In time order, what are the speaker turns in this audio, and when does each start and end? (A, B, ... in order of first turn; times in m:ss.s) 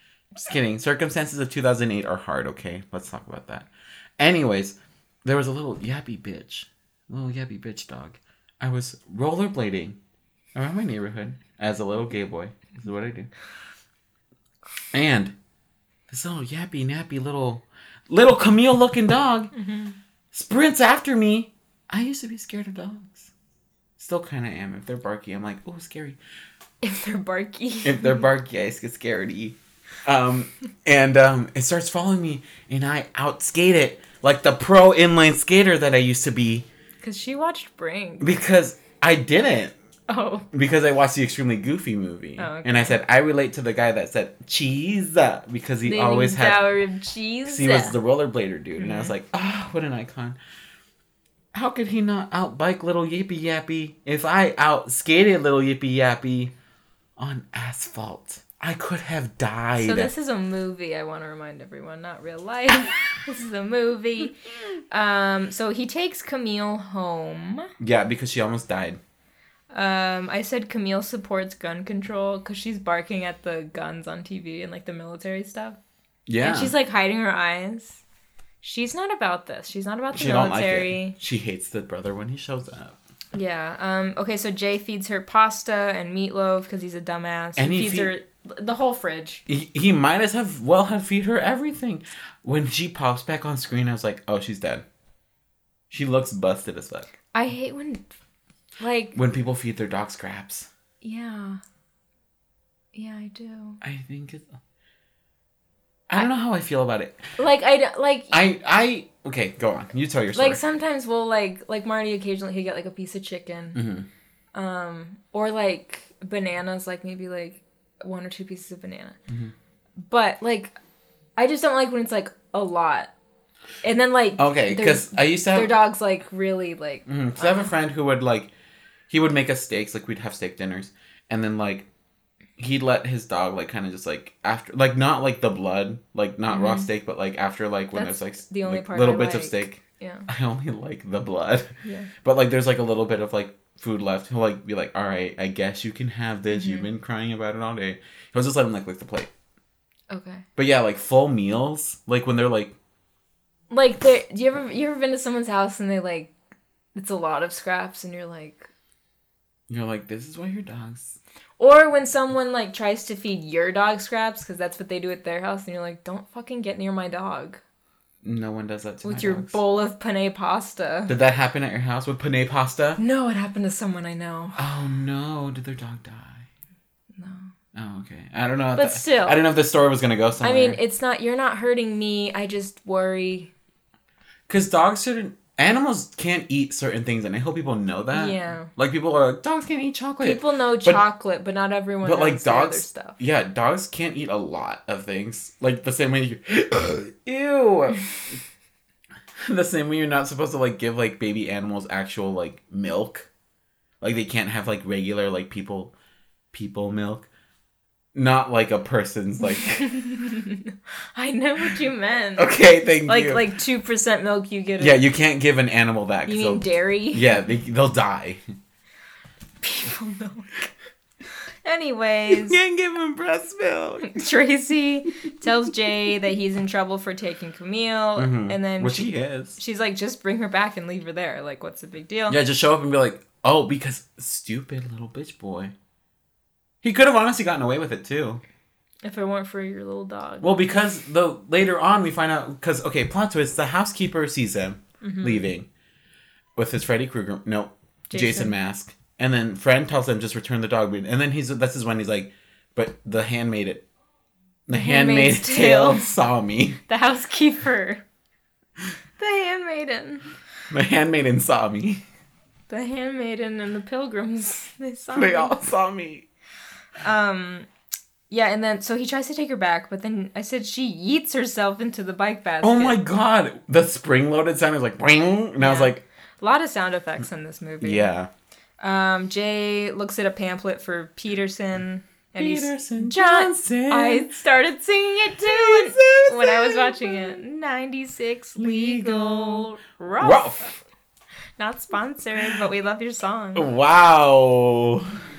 0:00.4-0:10.0 A
0:10.6-0:13.3 A
0:14.9-0:15.4 A
0:16.1-0:19.5 A
0:19.6-0:20.0 B
0:20.3-0:23.3 A
0:24.0-0:26.2 A
0:26.8-0:28.2 B
0:27.8-0:36.7 A
0:37.0-0:38.4 B
0:38.2-0:39.7 A
0:40.1-0:40.5 B
0:40.5-0:46.7 A
0:42.4-0:43.0 B
0:45.8-0:48.0 B
0:47.5-0:50.4 A
0:48.8-0:49.1 B
0:51.5-0:56.5 A
0:57.2-1:00.1 A
0:59.8-1:04.4 B
1:04.9-1:07.7 B
1:07.8-1:09.0 A
1:09.7-1:15.8 B
1:16.3-1:16.7 A
1:16.4-1:18.0 B
1:18.6-1:21.2 B
1:20.1-1:23.0 A
1:23.3-1:29.4 B
1:27.6-1:28.1 A
1:29.5-1:34.8 A
1:35.9-1:37.1 A
1:37.3-1:38.1 B
1:38.8-1:39.2 B
1:39.2-1:40.7 A
1:41.0-1:41.6 B
1:42.9-1:43.8 B
1:43.8-1:44.6 A
1:46.1-1:47.3 A
1:47.4-1:48.4 B
1:48.3-1:50.6 A
1:50.3-1:53.8 B
1:53.8-1:54.1 A
1:54.6-1:59.2 B
1:59.3-1:59.5 A
2:00.0-2:00.8 B
2:01.4-2:03.1 B
2:03.8-2:07.7 B
2:04.4-2:05.7 A
2:07.1-2:08.5 A
2:09.1-2:11.9 A
2:12.6-2:29.3 A
2:16.5-2:16.9 B
2:17.9-2:20.3 B
2:21.8-2:22.1 B
2:26.5-2:26.9 B
2:30.1-2:30.4 B
2:30.6-2:32.7 A
2:33.7-2:36.3 B
2:37.0-2:38.7 B
2:39.7-2:41.2 A
2:41.6-2:47.6 B
2:48.2-2:49.6 A
2:49.0-2:51.1 B
2:51.1-2:53.0 A
2:53.0-2:54.6 B
2:54.6-2:56.5 A
2:57.2-2:57.5 B
2:57.7-3:00.8 A
2:58.8-2:59.4 B
3:00.4-3:03.5 B
3:04.5-3:11.0 A
3:08.1-3:08.7 B
3:10.2-3:13.2 B
3:12.0-3:18.4 A
3:19.4-3:23.3 A
3:24.0-3:25.9 A
3:26.5-3:27.3 A
3:28.1-3:29.9 A
3:29.6-3:32.5 B
3:32.4-3:33.5 A
3:33.0-3:35.0 B
3:34.8-3:38.4 A
3:36.3-3:37.4 B
3:39.6-3:40.7 B
3:41.6-3:42.6 B
3:42.3-3:44.1 A
3:44.0-3:52.4 B
3:48.2-3:49.6 A
3:52.3-3:55.7 A
3:56.8-3:58.4 A
3:59.0-4:00.6 B
4:00.4-4:05.7 A
4:05.0-4:05.5 B
4:06.6-4:13.9 A
4:08.1-4:08.6 B
4:14.7-4:16.8 A
4:14.7-4:16.1 B
4:16.9-4:18.0 B
4:19.2-4:20.3 B
4:20.7-4:22.0 A
4:22.7-4:25.5 B
4:25.1-4:26.3 A
4:27.0-4:27.7 B
4:28.3-4:33.0 B
4:32.6-4:36.0 A
4:35.6-4:38.1 B
4:37.8-4:38.3 A
4:38.8-4:50.8 B
4:42.4-4:44.4 A
4:45.4-4:47.4 A
4:48.6-4:49.7 A
4:50.2-4:50.7 A
4:51.6-4:53.7 B
4:53.6-4:55.2 A